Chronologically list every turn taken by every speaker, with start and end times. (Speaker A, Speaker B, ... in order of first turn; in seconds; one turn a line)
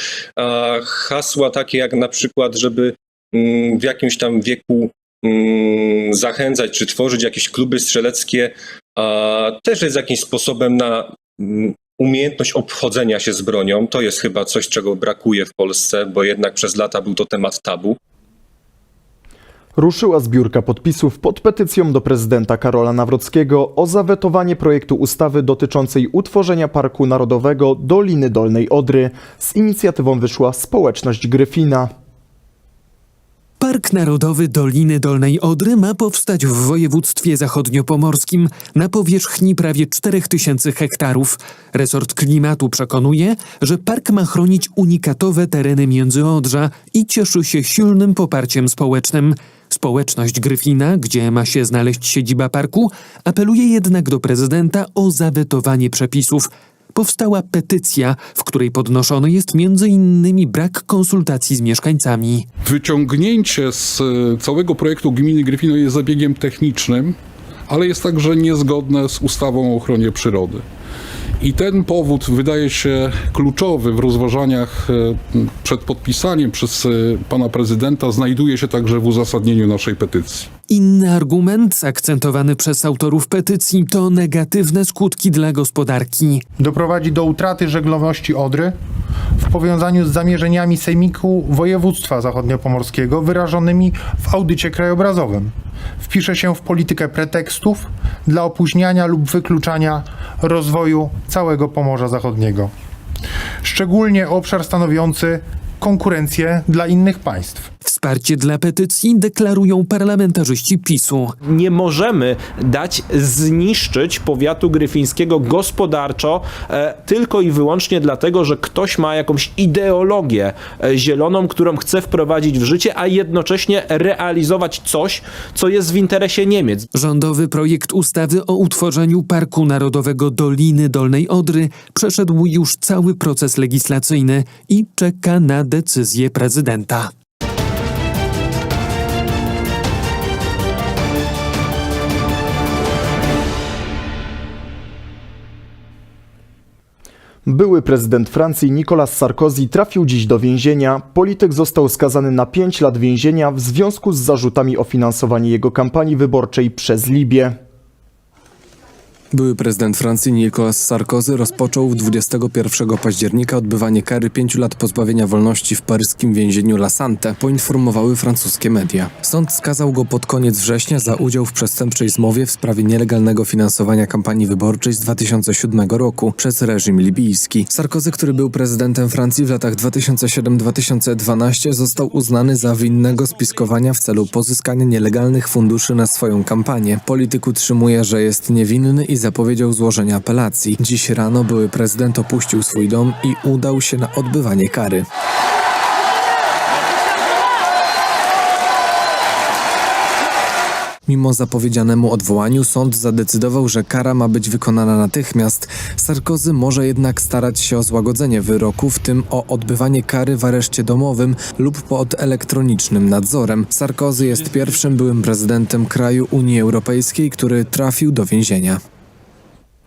Speaker A: 0.4-17.9
Speaker B: 19.8-31.9
Speaker C: 33.6-62.5
Speaker D: 62.6-67.2
Speaker D: 67.7-70.6
Speaker D: 71.4-80.5
Speaker C: 80.7-86.4
Speaker E: 86.6-88.7
Speaker E: 89.4-95.5
Speaker E: 96.0-102.7
Speaker E: 103.6-107.7
Speaker C: 107.8-111.3
Speaker F: 111.4-126.8
Speaker C: 126.9-137.1
Speaker B: 147.4-157.5
Speaker G: 159.3-195.1
Speaker G: 201.1-218.8